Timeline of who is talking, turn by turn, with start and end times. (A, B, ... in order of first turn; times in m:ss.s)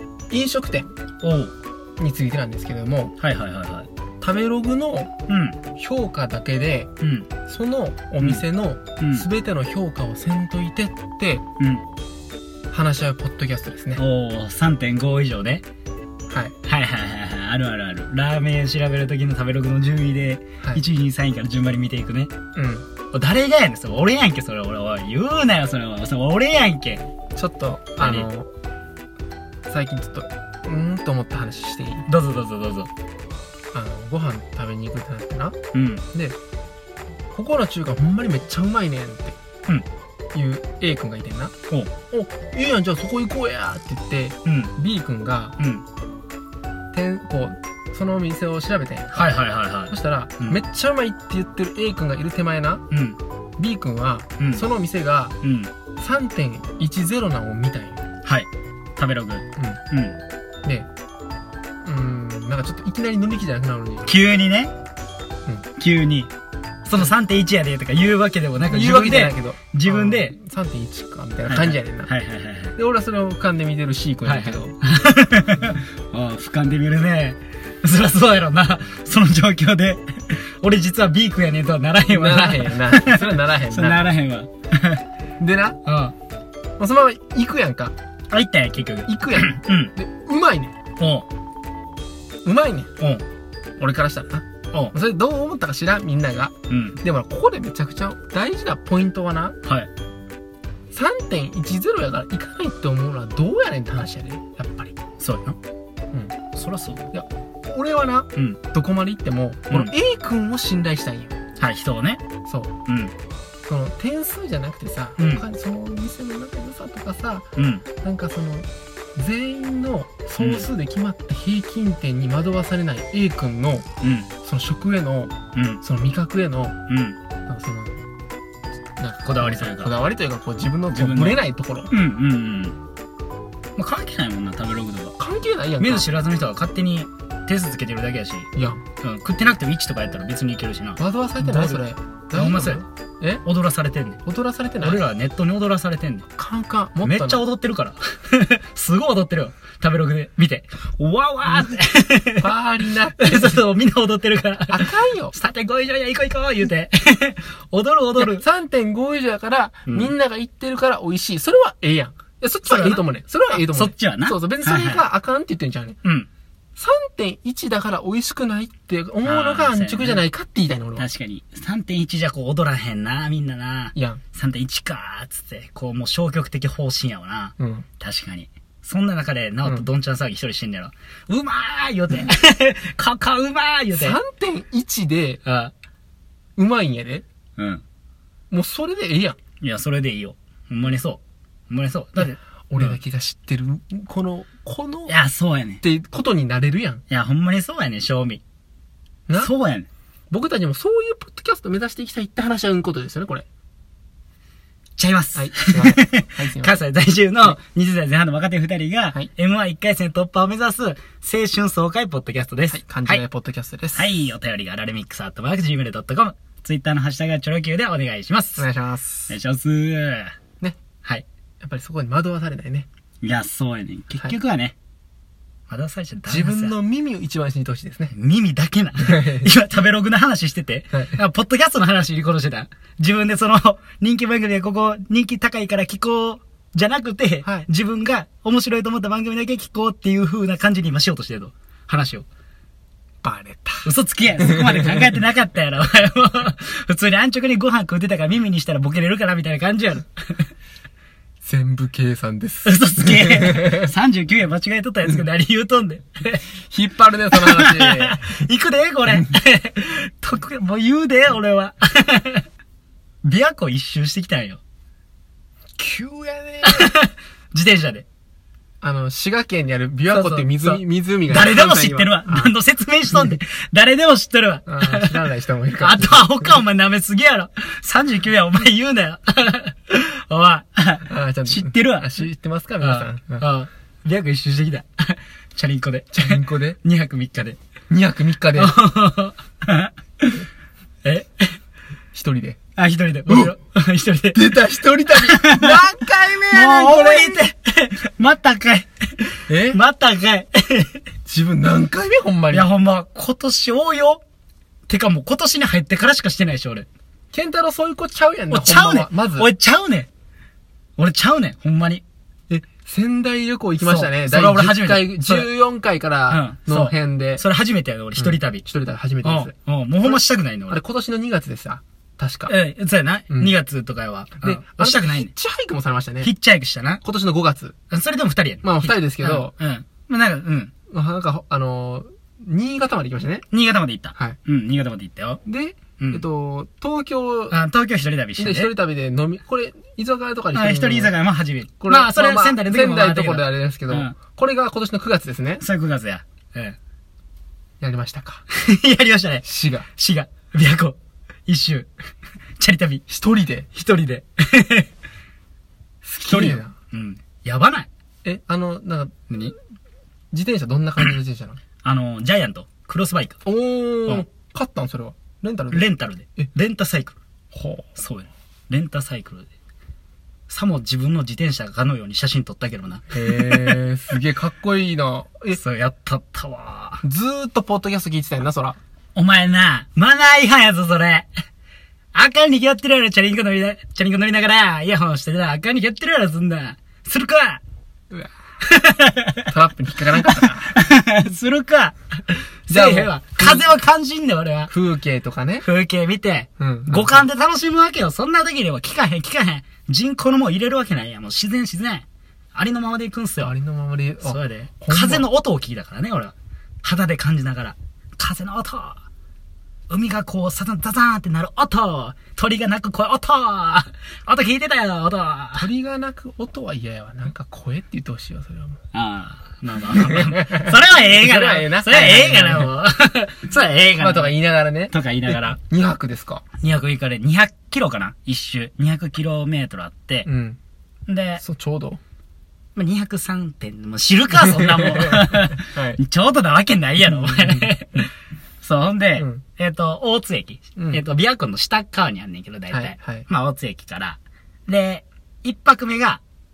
0:00.3-0:00.9 A
0:01.2-0:01.5 B
0:02.0-0:03.1 A
0:03.2-0:03.9 B
0:04.2-0:05.1 A
0:05.3-0:05.6 B
0:05.8-0:06.9 A
0:07.0-0:07.3 B
0:07.5-0:11.4 A
0:09.0-0:09.3 B
0:11.6-0:11.8 B
0:12.7-0:14.0 A
0:14.0-0:15.6 B
0:16.6-0:22.3 B
0:22.6-0:22.9 A
0:23.1-0:27.0 B
0:27.4-0:28.5 A
0:28.0-0:28.3 B
0:29.7-0:32.1 A
0:32.1-0:32.9 B
0:33.7-0:35.6 A
0:35.7-0:36.0 B
0:37.3-0:39.4 A
0:40.3-0:41.5 A
0:42.1-0:45.6 A
0:44.4-0:44.7 B
0:45.6-0:45.8 B
0:46.9-0:49.3 A
0:49.1-0:50.6 B
0:49.9-0:52.8 A
0:52.9-0:53.2 B
0:53.6-0:55.4 A
0:55.4-0:55.7 B
0:56.0-0:58.0 A
0:58.2-1:00.2 B
1:01.8-1:04.1 A
1:04.0-1:04.7 B
1:05.8-1:06.3 B
1:06.8-1:10.4 B
1:08.6-1:12.1 A
1:11.5-1:12.8 B
1:12.8-1:14.8 A
1:14.2-1:25.0 B
1:22.1-1:24.0 A
1:25.4-1:25.8 A
1:25.8-1:26.2 B
1:26.8-1:27.9 A
1:28.3-1:29.9 B
1:29.1-1:30.7 A
1:31.0-1:31.3 B
1:32.4-1:32.9 A
1:33.0-1:33.2 B
1:33.8-1:39.6 A
1:36.7-1:37.0 B
1:40.9-1:45.0 A
1:45.2-1:45.6 B
1:46.6-1:47.0 B
1:47.1-1:51.3 A
1:51.6-1:52.2 B
1:52.5-1:52.7 A
1:52.9-1:53.1 B
1:53.7-1:57.5 A
1:55.2-1:55.4 B
1:57.6-1:57.8 B
1:58.0-2:03.9 A
2:00.4-2:00.7 B
2:04.0-2:04.3 B
2:04.4-2:06.8 A
2:05.6-2:05.8 B
2:06.9-2:07.2 B
2:07.5-2:08.0 A
2:09.0-2:11.9 A
2:09.2-2:10.0 B
2:10.9-2:12.8 B
2:13.8-2:15.2 B
2:15.2-2:16.1 A
2:15.8-2:18.5 B
2:18.6-2:18.8 A
2:19.0-2:22.8 B
2:21.0-2:23.4 A
2:23.4-2:24.2 B
2:24.3-2:25.0 A
2:24.8-2:26.3 B
2:26.4-2:27.4 A
2:27.0-2:32.5 B
2:32.4-2:33.6 A
2:33.2-2:38.4 B
2:34.7-2:35.4 A
2:38.2-2:46.0 A
2:39.9-2:40.1 B
2:42.7-2:45.0 B
2:46.0-2:46.3 B
2:46.8-2:51.1 A
2:49.2-2:50.2 B
2:51.0-3:04.2 B
2:54.0-2:54.2 A
2:57.6-2:57.9 A
3:03.9-3:05.4 A
3:05.4-3:05.7 B
3:06.6-3:07.2 A
3:07.6-3:07.8 B
3:08.5-3:09.4 A
3:09.6-3:13.0 B
3:12.2-3:15.1 A
3:15.1-3:15.8 B
3:15.8-3:17.0 A
3:17.1-3:18.4 B
3:19.4-3:19.9 B
3:20.3-3:23.4 A
3:25.0-3:33.2 B
3:25.4-3:26.8 A
3:32.7-3:34.3 A
3:34.0-3:38.7 B
3:38.6-3:39.4 A
3:39.3-3:40.4 B
3:41.6-3:42.9 A
3:43.2-3:44.8 B
3:45.7-3:46.8 B
3:46.3-3:48.1 A
3:48.1-4:02.3 B
3:49.0-3:49.5 A
3:50.9-3:51.2 A
4:03.2-4:03.9 A
4:03.8-4:10.5 B
4:04.4-4:05.0 A
4:11.4-4:13.9 A
4:12.6-4:16.4 B
4:16.7-4:18.2 A
4:17.3-4:22.4 B
4:23.2-4:24.6 B
4:25.8-4:26.9 A
4:26.6-4:28.1 B
4:28.8-4:32.5 A
4:30.1-4:35.2 B
4:34.7-4:36.6 A
4:35.8-4:42.3 B
4:41.1-4:43.5 A
4:42.8-4:47.6 B
4:46.1-4:46.8 A
4:47.9-4:48.8 A
4:48.5-4:50.4 B
4:51.0-4:51.6 B
4:52.1-4:52.6 A
4:52.8-4:54.4 B
4:53.3-4:53.5 A
4:54.3-4:57.4 A
4:55.1-5:01.0 B
4:59.5-4:59.8 A
5:01.3-5:02.7 A
5:02.5-5:04.2 B
5:04.9-5:06.9 B
5:07.3-5:09.5 A
5:08.5-5:10.1 B
5:11.0-5:12.0 B
5:12.5-5:17.4 A
5:13.8-5:15.5 B
5:16.3-5:18.6 B
5:18.2-5:19.5 A
5:19.2-5:20.8 B
5:20.0-5:22.5 A
5:22.5-5:25.3 B
5:24.4-5:26.3 A
5:26.2-5:27.0 B
5:27.0-5:27.8 A
5:27.9-5:30.7 B
5:28.6-5:29.5 A
5:30.9-5:33.5 A
5:33.5-5:35.4 B
5:35.5-5:37.6 A
5:37.5-5:38.7 B
5:38.4-5:41.2 A
5:40.5-5:44.2 B
5:41.8-5:45.6 A
5:45.6-5:46.8 B
5:47.8-5:48.4 A
5:48.5-5:51.0 B
5:49.4-5:49.9 A
5:51.5-5:51.9 B
5:52.6-5:53.0 B
5:53.1-5:53.7 A
5:53.7-5:54.9 B
5:56.0-5:56.7 A
5:56.2-5:57.9 B
5:58.2-5:59.1 A
5:59.3-5:59.6 B
6:00.3-6:01.6 A
6:01.8-6:03.4 B
6:03.5-6:05.9 A
6:05.7-6:07.2 B
6:07.5-6:07.9 A
6:08.0-6:09.5 B
6:10.5-6:13.8 B
6:13.1-6:15.6 A
6:15.5-6:17.0 B
6:17.0-6:18.8 A
6:19.2-6:21.3 B
6:22.1-6:27.6 B
6:28.6-6:29.5 B
6:29.5-6:30.7 A
6:30.1-6:34.7 B
6:32.7-6:33.8 A
6:34.7-6:35.7 A
6:35.6-6:43.5 B
6:36.6-6:37.2 A
6:43.4-6:45.3 A
6:44.2-6:49.0 B
6:49.9-6:55.7 B
6:55.6-6:58.8 A
6:58.9-7:04.4 B
7:00.0-7:02.7 A
7:04.0-7:06.4 A
7:04.9-7:05.6 B
7:06.6-7:10.3 B
7:10.2-7:10.6 A
7:11.1-7:11.4 B
7:11.4-7:12.0 A
7:12.8-7:18.1 B
7:14.4-7:16.0 A
7:17.0-7:17.7 A
7:18.6-7:26.2 B
7:19.2-7:19.4 A
7:22.7-7:23.3 A